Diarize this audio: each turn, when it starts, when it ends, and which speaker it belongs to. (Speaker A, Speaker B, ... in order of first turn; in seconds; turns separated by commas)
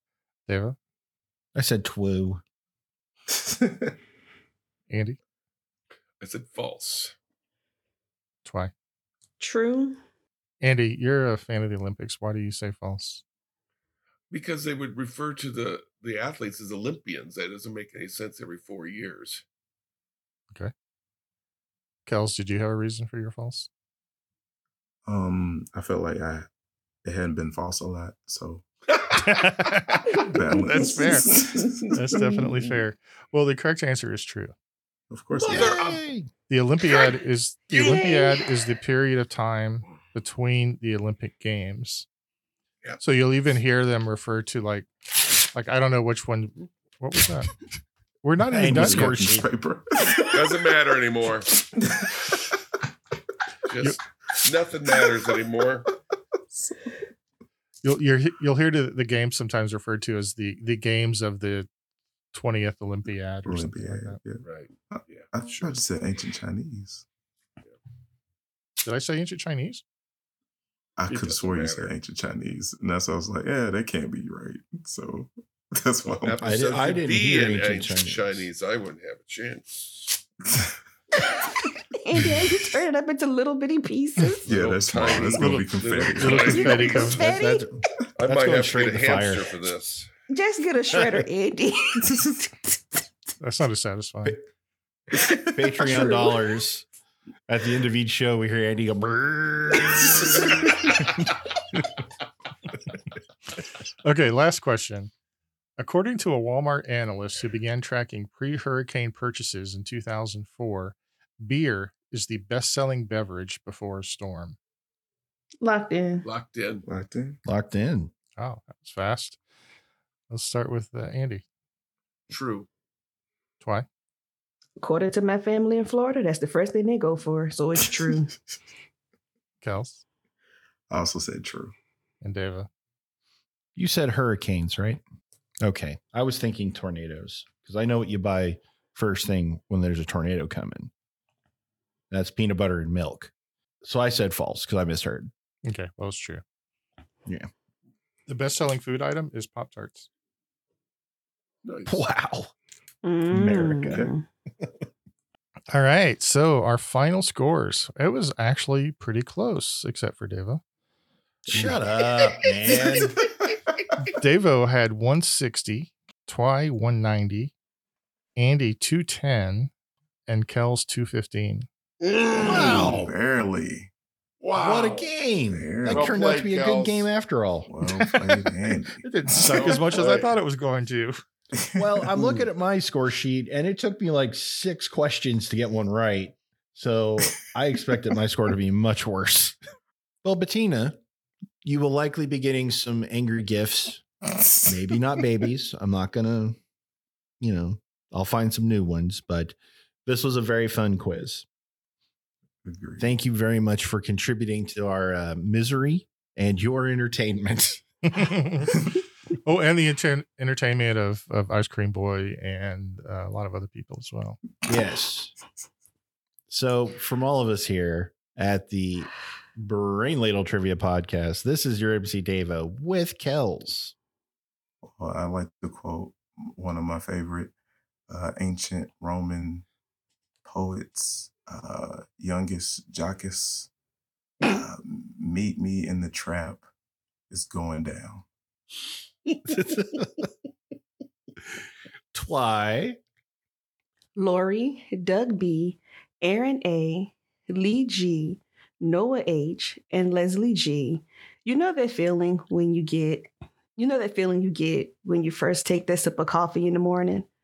Speaker A: 0.5-0.8, Speaker B: 1.6-2.4, Speaker C: 3.3-4.0, Speaker A: 4.9-5.2, Speaker D: 6.2-7.1, Speaker A: 8.4-8.7, Speaker E: 9.4-10.0, Speaker A: 10.6-13.2, Speaker D: 14.3-19.4, Speaker A: 22.1-23.7, Speaker C: 25.1-26.5, Speaker C: 27.0-28.7, Speaker A: 29.2-31.3, Speaker C: 30.2-31.9, Speaker E: 31.7-32.2, Speaker A: 31.9-34.5, Speaker C: 35.1-35.7, Speaker D: 35.4-36.0, Speaker B: 35.5-36.3, Speaker A: 36.5-42.1, Speaker E: 37.7-38.4, Speaker D: 37.7-38.0, Speaker A: 43.0-44.9, Speaker A: 45.4-47.5, Speaker A: 48.2-49.2, Speaker B: 48.5-49.5, Speaker C: 48.6-50.6, Speaker D: 50.2-51.5, Speaker C: 51.8-52.1, Speaker D: 53.7-55.9, Speaker C: 56.5-56.8, Speaker A: 57.8-61.7, Speaker A: 62.3-64.2, Speaker C: 63.5-67.0, Speaker D: 64.5-65.3, Speaker A: 68.8-69.8, Speaker C: 71.0-76.4, Speaker D: 71.1-71.9, Speaker D: 76.2-80.2, Speaker B: 76.4-78.5, Speaker E: 81.9-84.5, Speaker D: 84.5-87.3, Speaker C: 84.5-87.0, Speaker A: 85.4-87.2, Speaker E: 86.5-87.7, Speaker B: 87.2-89.5, Speaker D: 88.2-90.1, Speaker E: 90.3-92.2, Speaker B: 91.0-91.2, Speaker A: 93.4-94.4, Speaker E: 95.1-96.4, Speaker B: 95.5-96.9, Speaker B: 97.5-100.5, Speaker A: 104.0-105.1, Speaker A: 105.8-114.6, Speaker E: 115.6-116.3, Speaker D: 116.2-116.8, Speaker C: 116.9-117.4, Speaker B: 117.5-118.1, Speaker A: 118.4-119.4, Speaker A: 120.3-121.4, Speaker D: 122.3-122.7, Speaker E: 124.8-128.4, Speaker A: 129.6-130.0, Speaker C: 130.9-131.7, Speaker A: 132.2-132.7, Speaker B: 133.8-135.0, Speaker B: 135.6-140.9, Speaker B: 142.1-143.3, Speaker B: 143.8-145.3, Speaker A: 145.7-146.4, Speaker A: 148.3-150.1, Speaker D: 151.6-152.0, Speaker B: 151.9-152.5, Speaker E: 153.0-154.2, Speaker B: 153.3-154.1, Speaker C: 153.7-154.1, Speaker A: 155.7-160.6, Speaker C: 161.5-161.8, Speaker B: 161.5-163.2, Speaker A: 164.1-167.5, Speaker A: 168.4-169.7, Speaker A: 170.3-171.7, Speaker D: 172.0-172.9, Speaker B: 172.4-173.1, Speaker C: 172.4-173.9, Speaker D: 174.4-175.1, Speaker B: 174.6-177.7, Speaker C: 175.5-176.3, Speaker D: 175.8-177.1, Speaker C: 177.7-179.0, Speaker A: 179.0-181.2, Speaker D: 179.5-180.3, Speaker C: 181.6-181.8, Speaker B: 181.8-189.6, Speaker B: 190.2-191.0, Speaker B: 191.6-194.1, Speaker B: 194.6-196.6, Speaker B: 197.4-199.6, Speaker B: 200.1-201.5, Speaker C: 202.6-203.1, Speaker B: 203.0-207.8, Speaker A: 208.1-208.8, Speaker A: 209.4-214.4, Speaker B: 214.7-215.3, Speaker B: 216.5-223.9, Speaker C: 224.8-227.5, Speaker C: 228.1-229.7, Speaker C: 230.4-233.7, Speaker C: 234.4-236.7, Speaker C: 237.3-238.2, Speaker B: 239.5-240.3, Speaker B: 242.1-243.0, Speaker E: 244.2-257.3